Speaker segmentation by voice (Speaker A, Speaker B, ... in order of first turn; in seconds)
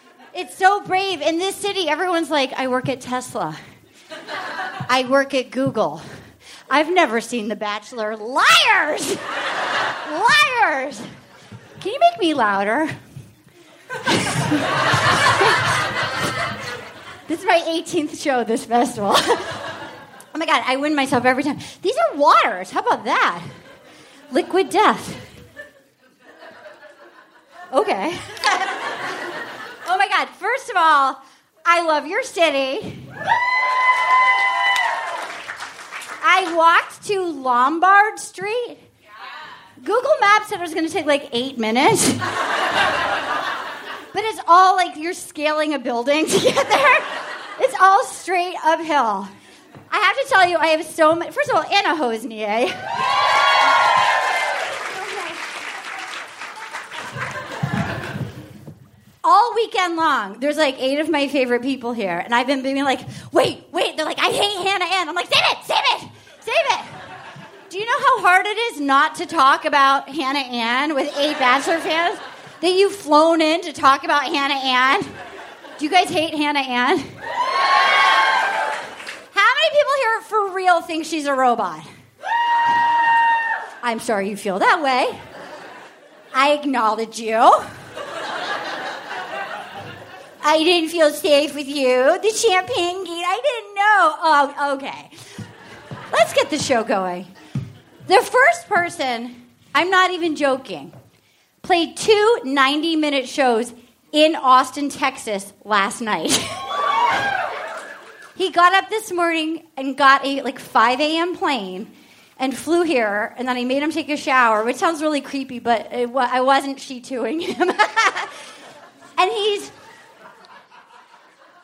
Speaker A: 0.3-3.6, 4.9-6.0, 6.7-9.2, 10.1-11.0, 11.8-12.9, 14.2-14.6, 17.3-19.6, 20.3-23.4, 24.3-25.2, 27.7-28.7, 29.9-33.1, 36.2-38.8, 39.8-42.2, 44.1-49.3, 49.9-52.9, 55.0-55.3, 59.2-66.9, 67.7-75.1, 75.8-77.1, 79.3-81.8, 83.8-85.2, 86.3-87.7, 90.4-95.1, 96.1-97.3, 98.1-101.0, 101.6-106.6, 108.4-118.3, 119.2-119.7